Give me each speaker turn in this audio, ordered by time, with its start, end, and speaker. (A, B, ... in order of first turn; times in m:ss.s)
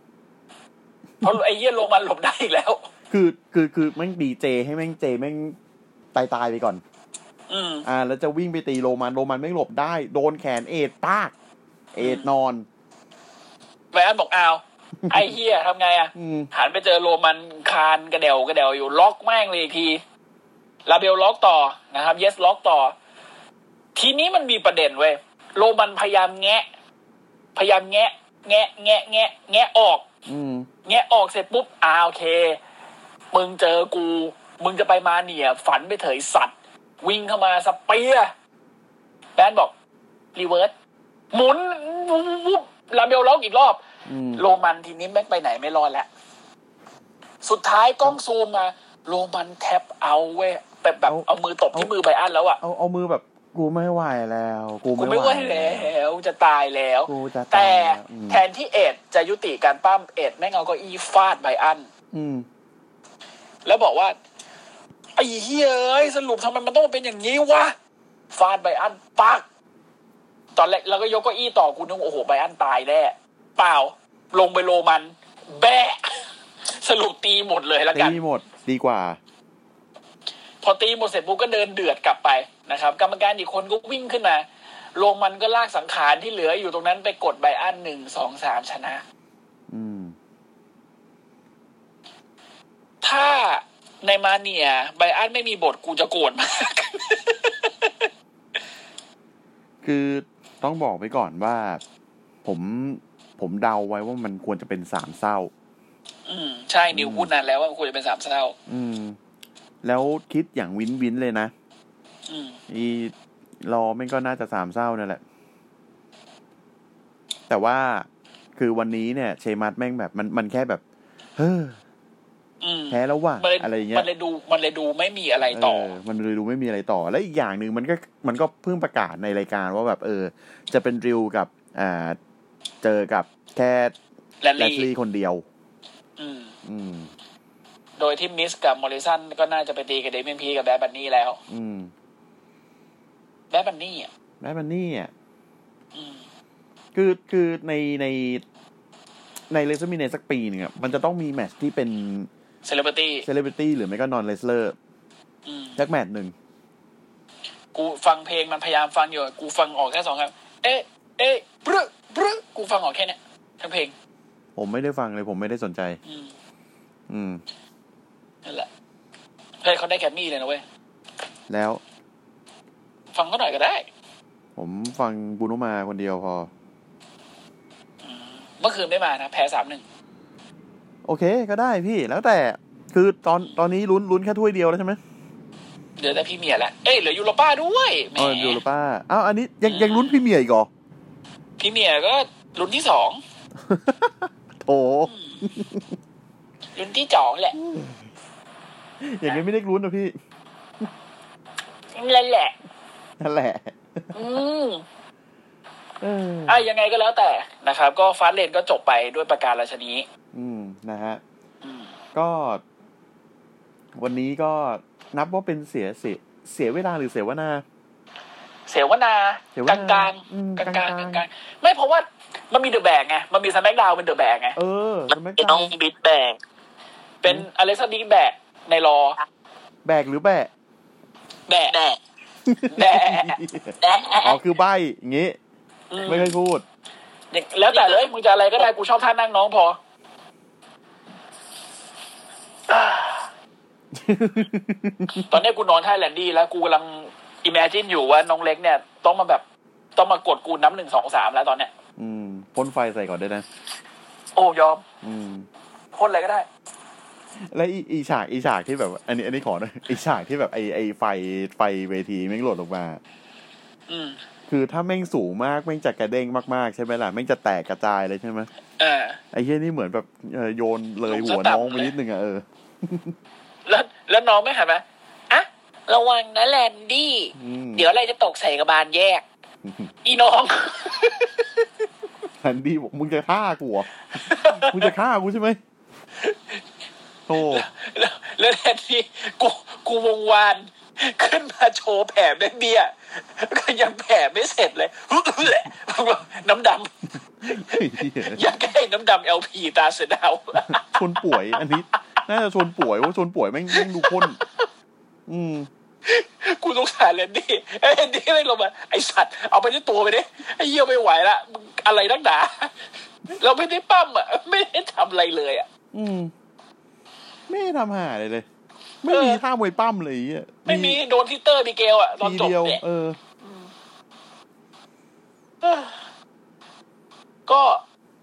0:01.2-0:02.9 A
0:03.1-0:05.6 B
0:06.1-0:06.8 B
0:07.5-0:07.8 A
0:07.8-0:11.3 B
0:11.9-0:12.6 B
0:12.0-0:12.3 A
0:13.9-0:20.0 A
0:15.0-0:15.3 B
0:16.1-0:16.5 B
0:20.8-0:22.9 A
0:23.9-0:26.7 A
0:27.6-0:30.1 A
0:30.3-0:30.7 B
0:30.8-0:32.6 A
0:33.3-0:38.3 A
0:39.4-0:39.7 A
0:40.3-0:40.7 A
0:41.3-0:43.8 A
0:44.0-0:44.4 B
0:44.4-0:46.1 A
0:47.4-0:52.6 A
0:51.0-0:51.9 B
0:52.6-0:55.9 B
0:55.0-1:01.9 A
0:57.1-0:58.4 B
1:02.1-1:02.4 B
1:03.6-1:04.2 A
1:05.2-1:07.7 A
1:08.3-1:09.4 A
1:10.6-1:18.2 A
1:17.9-1:19.2 B
1:20.6-1:29.0 A
1:29.7-1:30.1 B
1:33.0-1:38.1 A
1:39.8-1:41.8 B
1:42.4-1:45.5 B
1:46.2-1:48.6 A
1:46.9-1:47.3 B
1:48.7-1:49.2 B
1:49.8-1:51.5 B
1:52.3-1:52.6 A
1:52.7-1:55.2 B
1:57.5-2:00.8 B
2:01.4-2:01.8 B
2:02.6-2:05.9 A
2:02.9-2:04.1 B
2:05.5-2:12.2 B
2:12.8-2:13.9 B
2:14.4-2:14.9 A
2:14.6-2:15.4 B
2:16.2-2:16.6 A
2:16.6-2:17.1 B
2:18.0-2:21.4 A
2:21.5-2:21.9 B
2:23.5-2:24.1 A
2:24.4-2:25.1 B
2:25.9-2:26.2 A
2:26.9-2:28.4 B
2:29.5-2:32.3 B
2:32.6-2:33.3 A
2:33.2-2:34.8 B
2:35.4-2:35.8 A
2:35.8-2:36.3 B
2:37.7-2:43.9 A
2:44.6-2:46.0 B
2:46.0-2:46.3 A
2:47.1-2:47.4 B
2:49.6-2:50.6 A
2:51.5-2:51.8 B
2:53.1-2:53.8 A
2:54.6-2:56.5 B
2:58.0-2:59.8 A
3:01.0-3:05.0 B
3:06.0-3:08.6 A
3:08.2-3:10.7 B
3:09.6-3:10.2 A
3:11.6-3:13.2 A
3:13.6-3:15.9 B
3:15.1-3:15.5 A
3:16.8-3:17.6 A
3:17.6-3:18.0 B
3:19.0-3:20.1 B
3:21.9-3:22.6 A
3:23.2-3:24.2 B
3:24.1-3:24.8 A
3:26.0-3:26.6 B
3:26.5-3:30.0 A
3:30.3-3:31.2 B
3:31.6-3:31.9 A
3:32.1-3:32.6 B
3:33.9-3:37.6 B
3:38.7-3:44.6 A
3:39.5-3:41.2 B
3:44.5-3:45.7 B
3:45.1-3:46.4 C
3:47.2-3:49.2 A
3:49.8-3:50.5 B
3:51.5-3:51.8 A
3:51.7-3:52.0 C
3:52.4-3:55.4 B
3:52.7-3:53.4 A
3:53.8-3:54.4 C
3:55.9-3:56.4 A
3:56.0-3:56.6 B
3:57.3-3:59.8 A
3:57.7-3:58.0 C
4:02.7-4:03.3 A
4:03.9-4:05.4 B
4:05.3-4:09.4 A
4:10.0-4:11.7 A
4:12.0-4:13.4 B
4:14.4-4:14.8 A
4:15.0-4:15.5 B
4:15.9-4:16.5 A
4:17.4-4:23.0 B
4:23.9-4:24.2 A
4:24.5-4:28.5 B
4:28.8-4:29.2 A
4:29.3-4:33.2 B
4:31.1-4:31.9 A
4:33.6-4:39.2 A
4:37.4-4:37.9 B
4:39.6-4:39.9 B
4:40.0-4:41.4 A
4:42.4-4:45.6 B
4:44.2-4:44.9 A
4:46.2-4:46.6 A
4:47.3-4:47.7 B
4:47.4-4:56.9 A
4:57.4-4:58.4 B
4:57.5-5:01.0 A
5:00.7-5:04.4 B
5:03.7-5:04.6 A
5:05.3-5:05.7 B
5:06.0-5:12.7 A
5:13.4-5:15.7 A
5:15.9-5:16.3 B
5:17.5-5:18.4 B
5:19.0-5:21.0 B
5:19.1-5:19.4 A
5:20.6-5:22.8 A
5:22.2-5:23.2 B
5:23.4-5:23.7 A
5:25.6-5:26.0 A
5:27.5-5:27.8 A